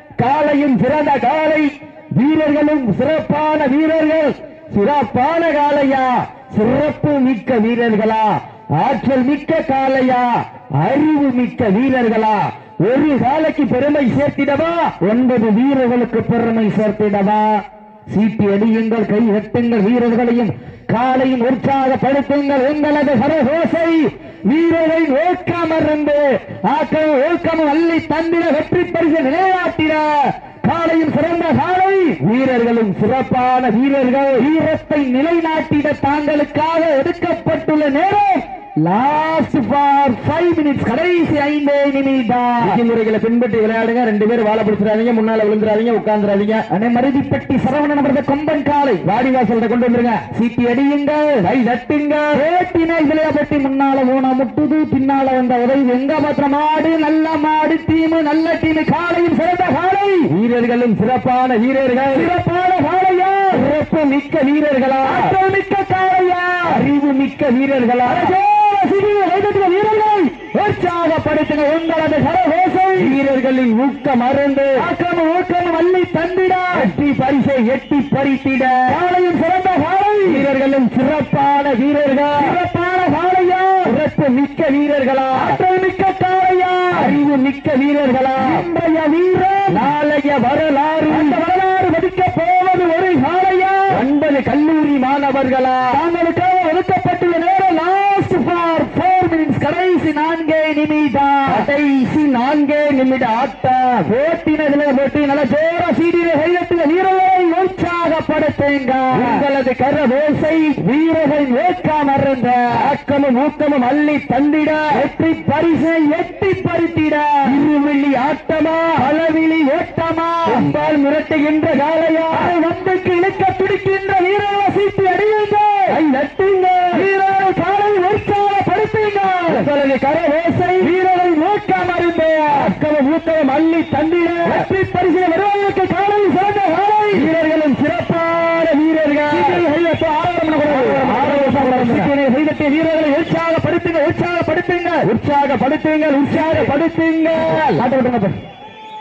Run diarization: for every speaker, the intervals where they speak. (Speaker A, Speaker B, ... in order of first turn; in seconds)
Speaker A: 0.2-14.9, 32.2-34.5, 42.6-46.6, 49.0-50.2, 51.4-52.4, 60.3-62.3, 63.5-65.3, 66.7-68.3, 73.0-74.8, 76.7-78.9, 80.2-82.5, 83.8-85.6, 86.9-88.6, 89.7-91.4, 93.9-96.0, 101.5-104.1, 109.1-110.8, 112.7-115.0, 117.5-119.0, 120.4-122.5, 125.9-127.1, 129.5-130.9, 132.5-134.7, 137.1-139.6, 140.6-142.1, 145.0-147.8
Speaker B: 15.0-32.2, 34.4-42.8, 46.7-49.1, 50.3-51.5, 52.3-60.3, 62.1-63.7, 65.0-66.9, 68.0-73.2, 74.8-76.9, 78.9-80.5, 82.3-84.0, 85.3-87.2, 88.4-89.9, 91.1-94.0, 95.9-101.7, 104.0-109.4, 110.8-112.9, 114.9-117.6, 119.0-120.7, 122.3-126.0, 126.9-129.7, 130.8-132.8, 134.4-137.3, 139.3-145.1, 146.2-146.8, 147.3-148.4